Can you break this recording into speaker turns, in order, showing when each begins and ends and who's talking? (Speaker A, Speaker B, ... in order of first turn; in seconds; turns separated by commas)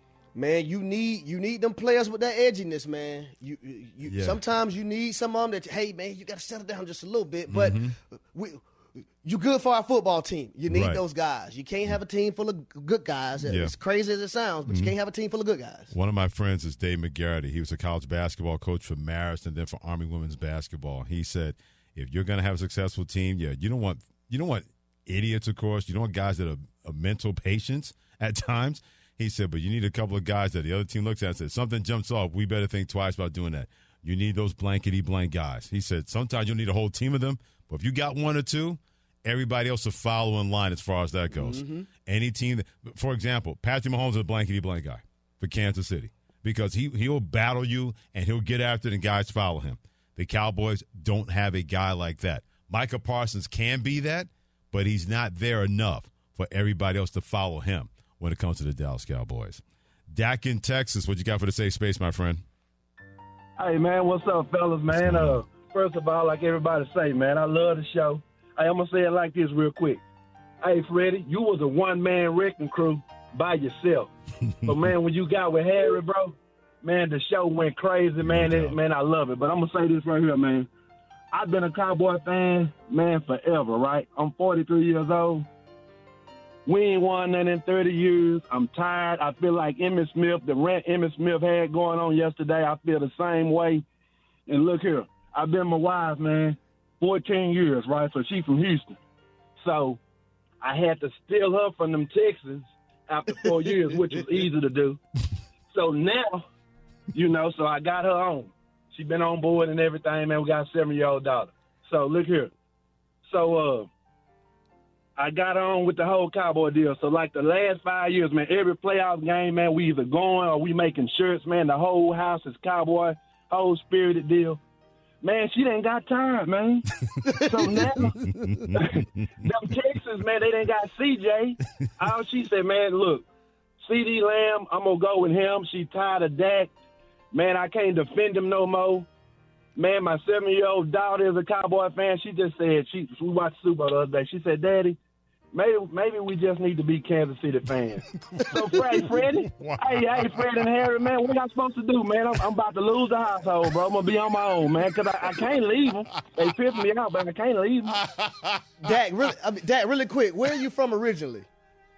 Speaker A: 0.3-15.9, Speaker B: 4.1-4.4, Speaker B: 7.5-8.0, Speaker B: 10.7-11.0, Speaker B: 13.5-13.7, Speaker B: 14.7-14.9, Speaker B: 15.9-62.4, Speaker A: 41.3-41.9, Speaker C: 63.6-70.0, Speaker B: 64.9-65.4, Speaker C: 70.6-74.1, Speaker C: 74.7-80.7, Speaker B: 78.2-78.8, Speaker C: 81.3-85.5, Speaker C: 86.7-93.8, Speaker C: 94.5-99.0, Speaker C: 99.6-100.0, Speaker C: 100.6-105.0, Speaker C: 105.7-106.5, Speaker C: 107.1-112.5, Speaker C: 113.3-113.9, Speaker C: 115.2-124.6, Speaker C: 125.2-126.8, Speaker A: 127.3-127.9, Speaker C: 127.4-128.2, Speaker B: 128.0-128.8, Speaker C: 128.7-133.3, Speaker C: 133.8-136.7, Speaker C: 137.3-139.1, Speaker C: 139.8-145.0, Speaker C: 145.5-158.0, Speaker B: 148.2-150.8, Speaker B: 156.2-156.4, Speaker B: 158.0-158.7, Speaker A: 158.8-161.5